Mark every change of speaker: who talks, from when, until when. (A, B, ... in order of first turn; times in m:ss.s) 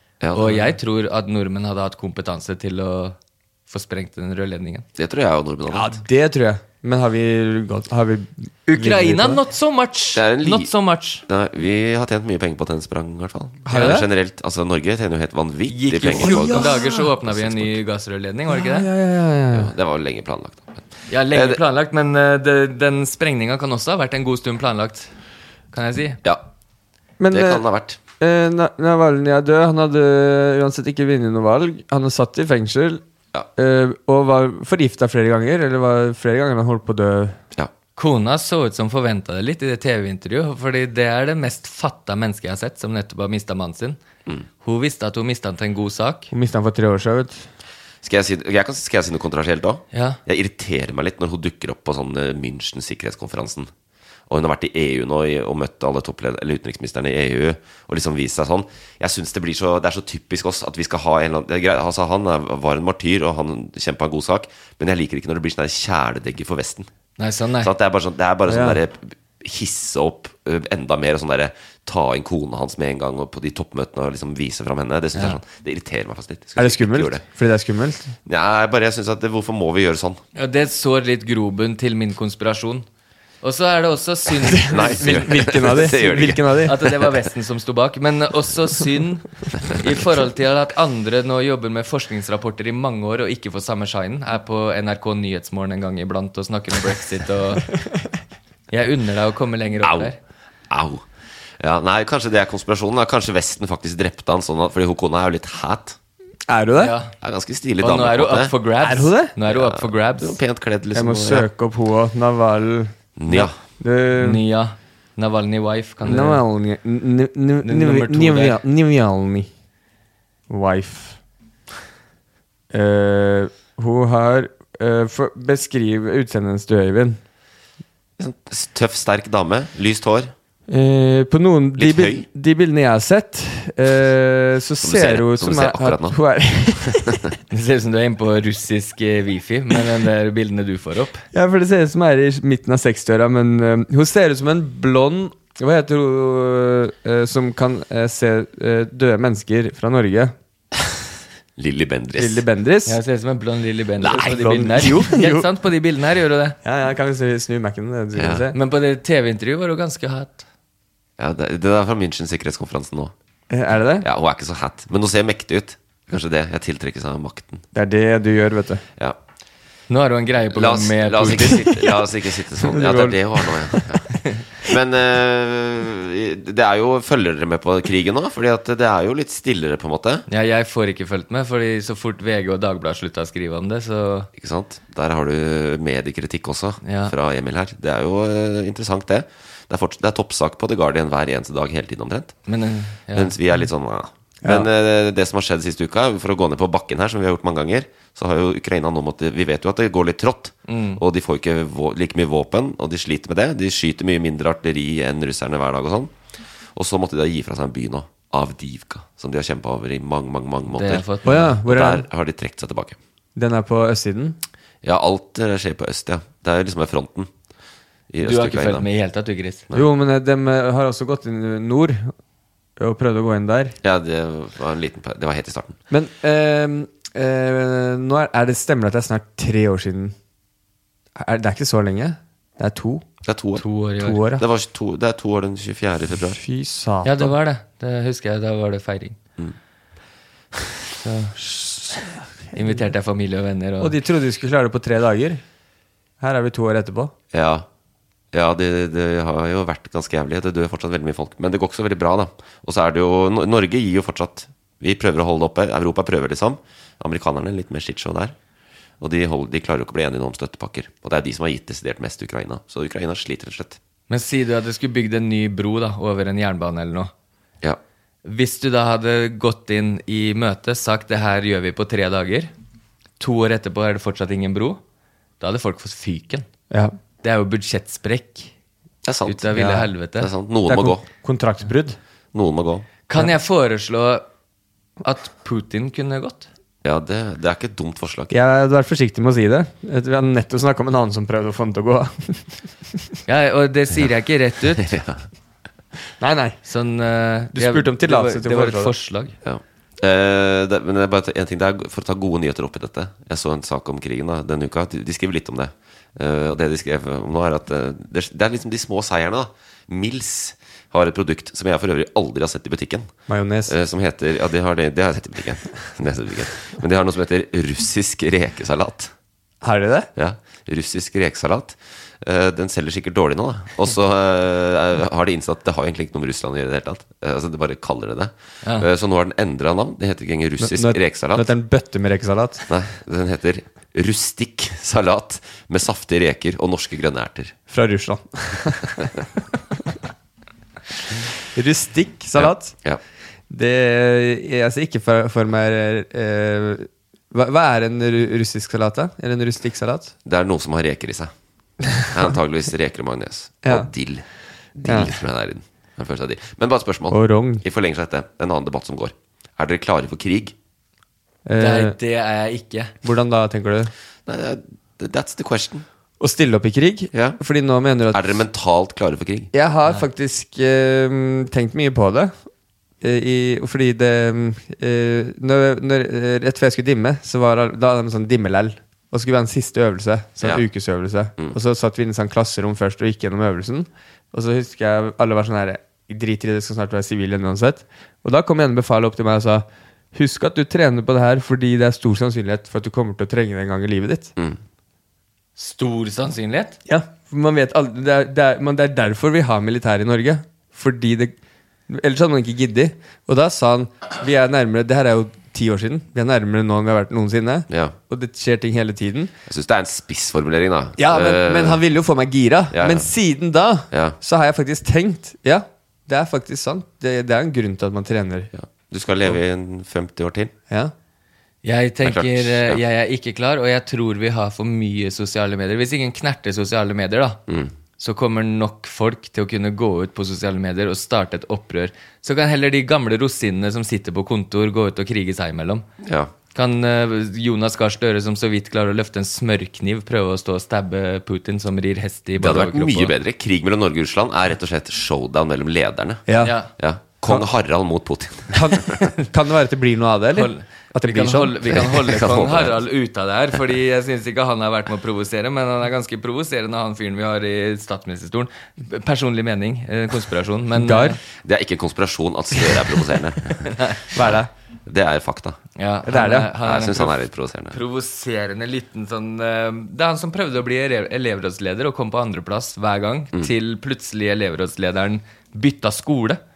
0:00.2-0:00.8 A
0:00.3-0:03.2 B
0:03.7-0:04.8 B
0:05.0-0:05.9 A
0:05.7-0:09.4 C
0:08.7-0:11.2 B
0:10.2-0:10.7 A
0:11.3-0:17.8 A
0:13.6-0:14.1 C
0:13.7-0:14.0 B
0:15.7-0:18.9 B
0:16.2-0:17.0 C
0:18.5-0:19.7 C
0:19.5-0:21.6 A
0:21.1-0:25.1 B
0:25.7-0:26.2 B
0:27.2-0:27.6 C
0:27.3-0:28.0 A
0:28.2-0:33.0 C
0:33.6-0:37.4 C
0:38.0-0:44.0 B
0:44.6-0:46.3 B
0:46.3-0:47.5 C
0:48.0-0:53.7 A
0:49.9-0:50.2 B
0:54.3-1:06.9 A
1:07.2-1:07.7 B
1:07.6-1:17.2 A
1:08.5-1:08.8 C
1:16.6-1:18.2 C
1:18.3-1:20.2 A
1:20.4-1:22.8 B
1:23.4-1:25.1 B
1:24.5-1:26.8 C
1:24.7-1:27.1 A
1:26.7-1:37.7 B
1:38.7-1:40.2 B
1:39.8-1:40.1 A
1:40.7-1:41.0 A
1:41.6-1:46.0 A
1:46.5-1:47.0 C
1:46.8-1:47.1 B
1:47.2-1:48.5 A
1:47.8-1:50.4 B
1:48.8-1:49.3 C
1:49.5-1:51.5 A
1:50.9-1:54.4 C
1:53.2-1:53.6 A
1:54.2-1:56.4 B
1:56.0-1:59.5 C
1:57.6-1:58.6 B
2:00.5-2:01.2 C
2:02.7-2:07.2 C
2:08.2-2:10.3 A
2:10.7-2:17.2 C
2:11.8-2:12.3 A
2:14.8-2:16.2 A
2:17.5-2:21.2 B
2:21.3-2:30.4 C
2:31.6-2:32.4 A
2:32.2-2:33.0 C
2:32.9-2:36.6 B
2:34.0-2:35.5 C
2:36.6-2:38.6 C
2:38.2-2:38.4 A
2:38.5-2:40.5 B
2:41.2-2:43.1 A
2:43.5-2:44.1 C
2:44.0-2:47.6 A
2:47.7-2:48.8 C
2:49.9-2:51.7 B
2:50.5-3:00.3 A
2:52.6-2:54.0 C
3:00.3-3:04.3 B
3:04.4-3:12.4 A
3:06.8-3:07.1 B
3:12.5-3:13.3 B
3:13.1-3:26.1 A
3:20.7-3:21.0 B
3:26.8-3:33.0 A
3:30.7-3:31.6 B
3:31.2-3:32.1 C
3:33.4-3:34.4 C
3:34.8-3:37.3 A
3:38.1-3:38.9 A
3:38.2-3:39.6 B
3:39.7-3:42.1 C
3:42.8-3:43.8 C
3:43.8-3:45.8 A
3:45.9-3:50.2 C
3:51.2-3:53.0 C
3:53.2-3:53.6 A
3:53.6-3:54.2 B
3:54.0-3:54.4 C
3:54.4-3:56.4 A
3:56.3-3:57.3 C
3:57.0-3:59.2 B
4:01.0-4:01.4 B
4:01.5-4:01.9 C
4:02.5-4:04.0 B
4:03.8-4:05.4 C
4:06.2-4:07.1 C
4:07.3-4:07.6 A
4:08.3-4:18.4 A
4:19.0-4:23.8 A
4:24.1-4:27.1 B
4:28.2-4:32.5 B
4:33.2-4:34.8 B
4:35.4-4:36.5 B
4:36.7-4:37.0 C
4:37.2-4:38.5 B
4:39.0-4:41.0 A
4:39.3-4:40.3 B
4:39.6-4:39.9 C
4:40.7-4:42.0 C
4:42.3-4:42.9 A
4:43.1-4:44.2 B
4:45.0-4:46.5 B
4:46.8-4:48.3 A
4:48.3-4:52.6 C
4:53.3-4:54.9 B
4:54.8-4:55.2 A
4:56.2-4:56.6 C
4:56.7-4:59.4 B
4:57.5-4:58.9 C
4:59.4-5:13.1 A
5:13.3-5:13.7 C
5:13.7-5:19.1 A
5:19.6-5:20.1 C
5:20.2-5:31.5 A
5:30.6-5:32.6 C
5:32.7-5:37.6 A
5:37.7-5:39.1 C
5:41.5-5:42.8 C
5:42.4-5:43.0 A
5:43.5-5:50.1 C
5:50.2-5:51.3 A
5:52.1-5:54.2 A
5:54.8-6:00.5 A
5:54.8-5:55.1 C
5:57.1-5:57.6 C
6:01.4-6:02.0 C
6:01.6-6:02.9 B
6:03.0-6:03.9 C
6:04.3-6:05.8 A
6:06.2-6:08.4 C
6:07.1-6:07.4 A
6:08.1-6:09.5 A
6:09.5-6:12.4 C
6:13.0-6:34.3 C
6:35.6-6:36.8 B
6:36.9-6:41.3 C
6:41.9-6:49.3 C
6:47.7-6:48.0 A
6:49.5-6:51.8 A
6:51.0-6:58.5 C
6:52.7-6:53.1 A
6:53.9-6:54.2 A
6:58.5-7:00.5 A
7:01.6-7:07.4 B
7:02.0-7:02.8 A
7:08.0-7:15.8 B
7:16.0-7:16.3 A
7:16.5-7:23.1 B
7:22.4-7:29.0 A
7:26.3-7:26.5 C
7:26.4-7:26.7 B
7:28.5-7:32.1 C
7:30.4-7:41.2 B
7:31.8-7:32.8 A
7:40.8-7:41.2 C
7:41.4-7:44.4 A
7:43.7-7:44.0 B
7:44.1-7:44.5 C
7:44.9-7:45.6 A
7:45.8-7:47.2 B
7:46.0-7:46.5 C
7:46.6-7:47.8 A
7:47.7-7:56.4 B